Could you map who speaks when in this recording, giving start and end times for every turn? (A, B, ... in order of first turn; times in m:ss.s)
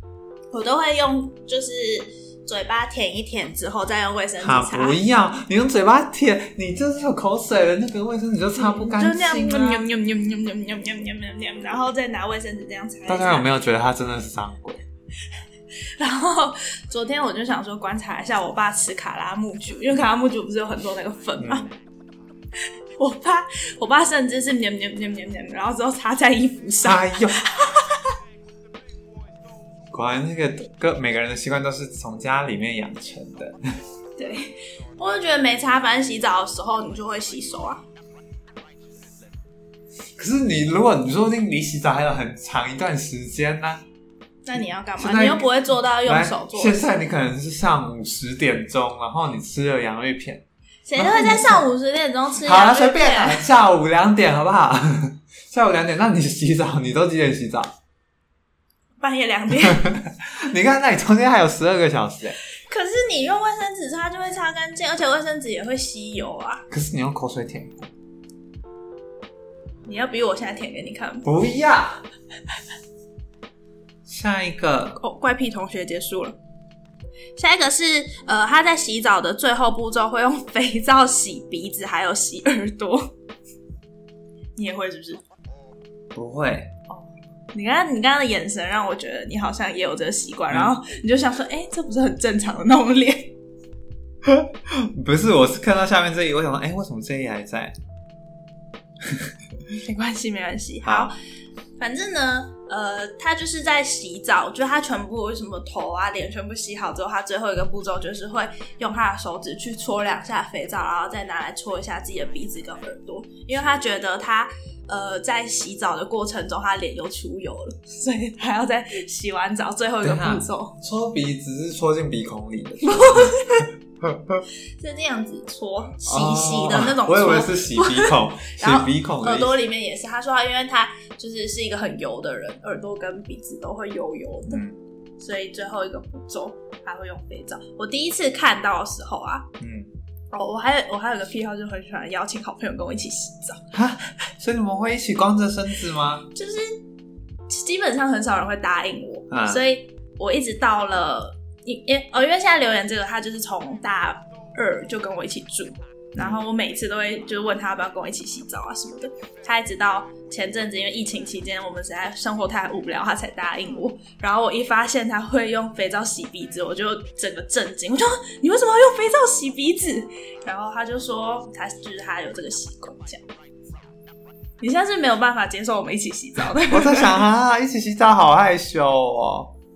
0:00.5-0:05.0 A
0:04.4-0:09.8 B
0:08.6-0:13.5 A
0:13.1-0:14.8 B
0:16.0-0:21.6 A
0:21.4-0:21.7 B
0:23.0-0:28.0 A
0:26.8-0:27.4 B
0:29.9-0:33.8 B
0:34.2-0:37.8 A
0:40.2-0:43.8 B
0:44.5-0:47.1 A
0:45.0-0:45.5 B
0:46.0-0:50.4 B
0:50.9-0:53.5 A
0:51.0-0:51.6 B
0:52.4-0:57.7 B
0:59.0-0:59.9 A
0:59.6-1:02.4 B
1:02.7-1:06.6 A
1:06.7-1:07.9 B
1:09.8-1:11.2 A
1:11.2-1:12.0 B
1:14.1-1:15.0 B
1:15.0-1:16.4 A
1:17.4-1:23.1 A
1:24.6-1:25.2 A
1:26.2-1:26.8 B
1:26.9-1:33.4 A
1:34.2-1:37.7 B
1:39.7-1:41.1 A
1:40.8-1:41.1 B
1:41.8-2:00.8 A
2:00.0-2:04.4 B
2:02.9-2:03.6 A
2:04.8-2:14.6 A
2:06.0-2:09.6 B
2:14.5-2:14.8 B
2:15.2-2:19.5 A
2:19.6-2:19.9 B
2:20.3-2:23.6 A
2:23.7-2:26.3 B
2:26.4-2:26.8 A
2:27.5-2:53.2 A
2:29.3-2:29.6 B
2:54.6-2:57.2 A
2:56.7-2:59.5 B